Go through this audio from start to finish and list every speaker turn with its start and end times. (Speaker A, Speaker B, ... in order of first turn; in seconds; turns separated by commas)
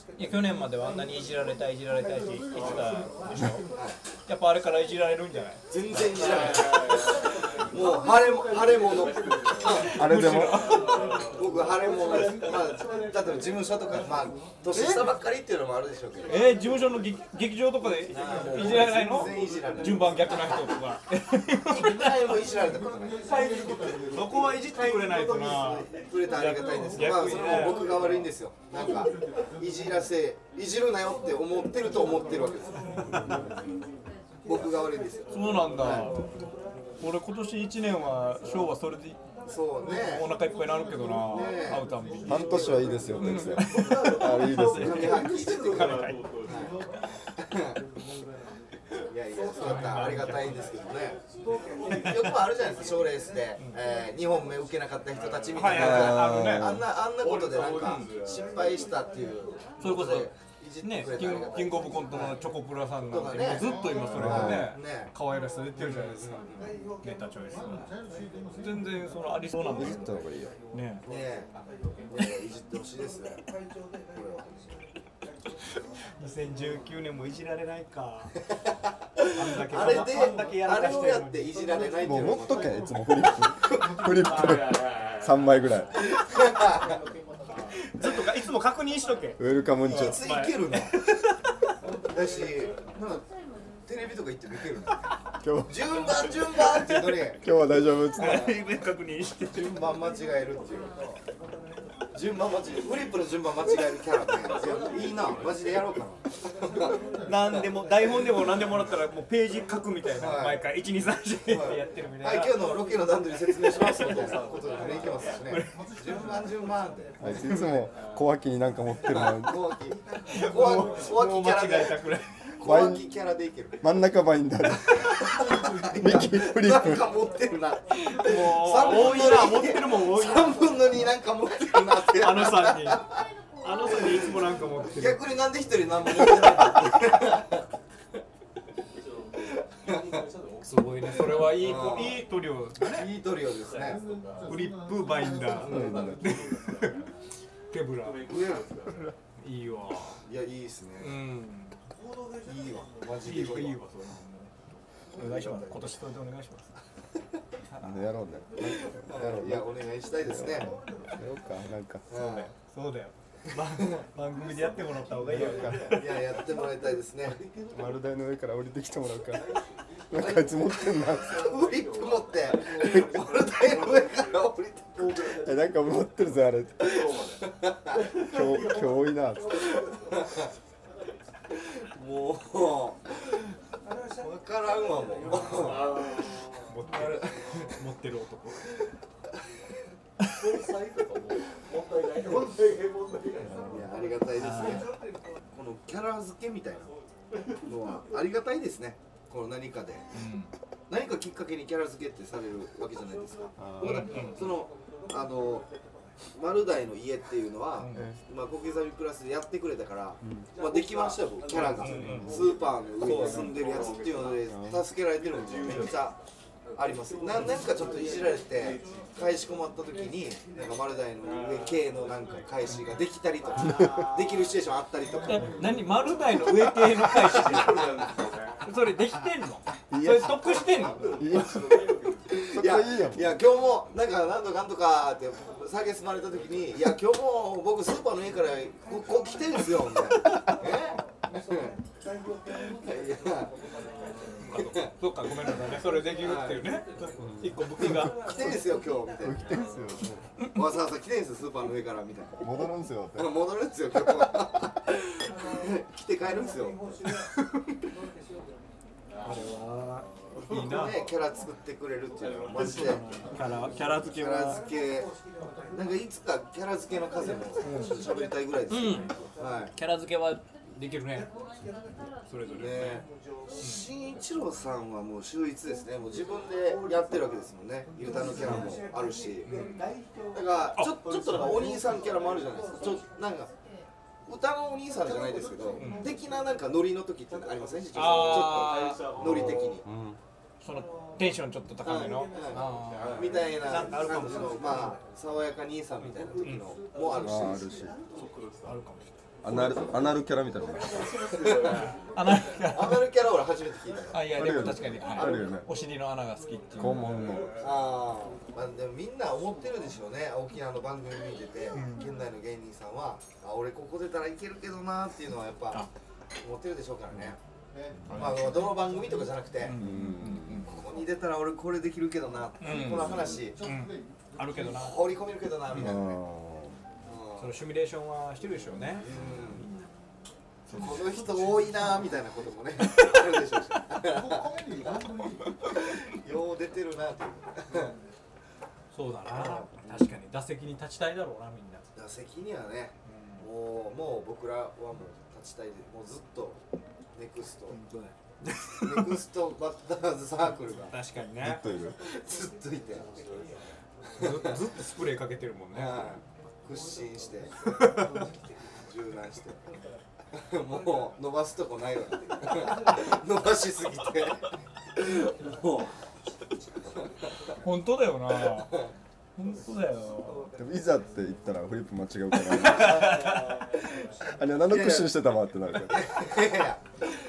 Speaker A: 0.2-3.6, Speaker A: 4.3-5.6, Speaker B: 5.7-7.1, Speaker B: 7.7-10.0, Speaker A: 9.7-11.2, Speaker C: 9.9-10.8, Speaker B: 10.9-16.4, Speaker A: 14.7-15.0, Speaker A: 16.3-22.3, Speaker B: 18.1-20.8, Speaker B: 21.7-23.2, Speaker A: 23.2-27.8, Speaker B: 25.1-33.1, Speaker B: 34.5-36.2, Speaker A: 35.3-36.3, Speaker A: 37.0-39.2, Speaker B: 39.5-40.3, Speaker A: 39.9-42.6, Speaker B: 41.2-43.2, Speaker C: 42.3-45.2, Speaker A: 43.2-46.2, Speaker B: 44.7-46.8, Speaker B: 47.4-47.8, Speaker B: 49.1-51.2, Speaker A: 49.6-50.6, Speaker B: 51.9-62.4, Speaker A: 55.5-56.8, Speaker C: 55.8-56.8, Speaker A: 59.8-60.3, Speaker A: 60.8-66.4, Speaker B: 63.1-65.1, Speaker C: 64.2-64.6, Speaker B: 65.8-66.7, Speaker A: 67.0-67.9, Speaker A: 68.6-70.2, Speaker C: 69.7-70.5, Speaker A: 70.7-71.0, Speaker B: 71.1-71.5, Speaker B: 72.1-73.4, Speaker B: 74.1-74.5, Speaker A: 76.2-78.4, Speaker B: 79.2-83.0, Speaker A: 79.3-81.5, Speaker C: 82.0-86.0, Speaker B: 86.0-87.0, Speaker A: 87.7-91.4, Speaker C: 89.4-90.2, Speaker B: 89.9-91.0, Speaker B: 92.1-93.2, Speaker B: 93.9-97.5, Speaker C: 95.4-95.8, Speaker A: 96.1-97.2, Speaker C: 97.4-98.5, Speaker A: 98.2-99.8, Speaker B: 98.2-98.5, Speaker B: 99.5-101.0, Speaker B: 102.1-107.0, Speaker A: 107.3-112.5, Speaker B: 107.5-108.5, Speaker B: 110.1-110.7, Speaker B: 111.5-117.2, Speaker A: 113.8-114.2, Speaker A: 115.5-115.8, Speaker C: 117.2-119.6, Speaker B: 119.1-122.0, Speaker A: 120.3-122.4, Speaker B: 122.6-123.8, Speaker C: 122.6-123.0, Speaker C: 123.8-127.0, Speaker B: 124.9-133.2, Speaker A: 127.9-130.7, Speaker A: 132.1-133.1, Speaker A: 133.6-135.2, Speaker B: 134.9-137.7, Speaker B: 139.9-140.2, Speaker A: 140.6-143.1, Speaker B: 141.2-142.3, Speaker B: 142.8-144.0, Speaker A: 144.5-147.1, Speaker B: 145.6-146.2, Speaker C: 145.7-146.1, Speaker A: 147.7-148.3, Speaker B: 148.3-148.7, Speaker A: 149.4-150.2, Speaker B: 150.3-151.2, Speaker A: 151.0-151.8, Speaker B: 152.4-153.8, Speaker A: 153.2-154.6, Speaker A: 155.2-156.7, Speaker B: 155.2-155.9, Speaker A: 157.7-158.1, Speaker C: 157.8-159.7, Speaker B: 158.7-160.8, Speaker C: 160.2-162.1, Speaker B: 162.1-162.5, Speaker A: 162.1-166.1, Speaker C: 165.4-165.8, Speaker B: 165.8-167.4, Speaker C: 167.7-169.5, Speaker C: 170.1-171.5, Speaker B: 170.1-175.3, Speaker C: 175.3-177.0, Speaker B: 176.9-178.0, Speaker C: 178.2-179.6, Speaker B: 180.1-180.5, Speaker B: 181.5-183.5, Speaker B: 184.2-186.2, Speaker A: 186.6-188.6, Speaker B: 187.0-187.7, Speaker B: 193.7-194.9, Speaker A: 194.4-194.8, Speaker B: 195.5-196.9, Speaker B: 197.6-200.1, Speaker A: 200.1-200.5, Speaker B: 200.9-205.7, Speaker C: 203.6-204.1, Speaker A: 203.8-204.5, Speaker B: 206.3-216.2, Speaker A: 207.8-208.1, Speaker A: 211.5-212.4, Speaker C: 212.0-212.2, Speaker A: 213.0-213.6, Speaker B: 216.8-225.7, Speaker A: 225.2-227.9, Speaker B: 226.9-228.2, Speaker A: 228.7-231.6, Speaker C: 229.9-231.8, Speaker B: 231.7-241.8, Speaker C: 232.5-233.3, Speaker B: 242.8-243.5, Speaker A: 244.4-248.2, Speaker B: 244.5-244.9, Speaker B: 246.2-246.7, Speaker C: 247.2-247.9, Speaker B: 248.0-249.6, Speaker C: 249.2-250.2, Speaker B: 250.5-252.5, Speaker C: 252.4-253.3, Speaker B: 253.2-256.8, Speaker A: 259.2-261.0, Speaker B: 260.6-263.0, Speaker A: 262.6-264.6, Speaker B: 264.1-265.1, Speaker B: 265.7-269.7, Speaker A: 267.6-267.9, Speaker A: 268.7-269.1, Speaker A: 269.8-271.3, Speaker A: 272.3-273.0, Speaker B: 272.6-273.1, Speaker B: 273.6-279.5, Speaker A: 279.4-279.8, Speaker B: 280.3-283.5, Speaker B: 284.3-289.9, Speaker A: 285.8-286.1, Speaker A: 287.9-289.0, Speaker C: 289.2-290.2, Speaker A: 290.6-294.9, Speaker B: 291.8-297.7, Speaker C: 297.2-298.0, Speaker A: 298.6-299.2, Speaker C: 299.4-301.2, Speaker B: 301.4-301.9, Speaker A: 302.1-303.0, Speaker B: 302.6-304.3, Speaker A: 304.1-307.2, Speaker C: 304.2-305.7, Speaker B: 305.1-305.5, Speaker C: 306.8-307.5, Speaker B: 307.6-315.9, Speaker A: 311.8-312.1, Speaker B: 316.4-317.4, Speaker B: 318.1-319.8, Speaker A: 319.6-320.7, Speaker C: 319.8-320.6, Speaker B: 320.6-323.6, Speaker A: 322.6-325.1, Speaker B: 324.6-326.2, Speaker A: 325.7-326.0, Speaker C: 325.8-326.8, Speaker B: 327.1-327.6, Speaker A: 327.4-329.9, Speaker B: 329.0-329.6, Speaker A: 330.7-331.0, Speaker B: 330.7-337.9, Speaker A: 338.9-341.9, Speaker B: 339.3-340.1, Speaker B: 341.9-346.6, Speaker A: 343.1-343.4, Speaker B: 347.1-347.8, Speaker A: 347.7-349.2, Speaker B: 348.8-350.9, Speaker A: 350.9-351.6, Speaker C: 351.4-352.0, Speaker B: 352.0-353.1, Speaker B: 354.2-354.7, Speaker A: 354.2-356.0, Speaker B: 355.7-357.5, Speaker A: 357.8-358.2, Speaker B: 358.9-359.6, Speaker B: 360.3-365.9, Speaker A: 367.6-368.9, Speaker B: 368.5-368.9, Speaker A: 369.4-370.5, Speaker C: 370.6-373.3, Speaker A: 372.4-373.6, Speaker C: 374.3-376.1, Speaker B: 374.6-375.2, Speaker B: 375.7-377.1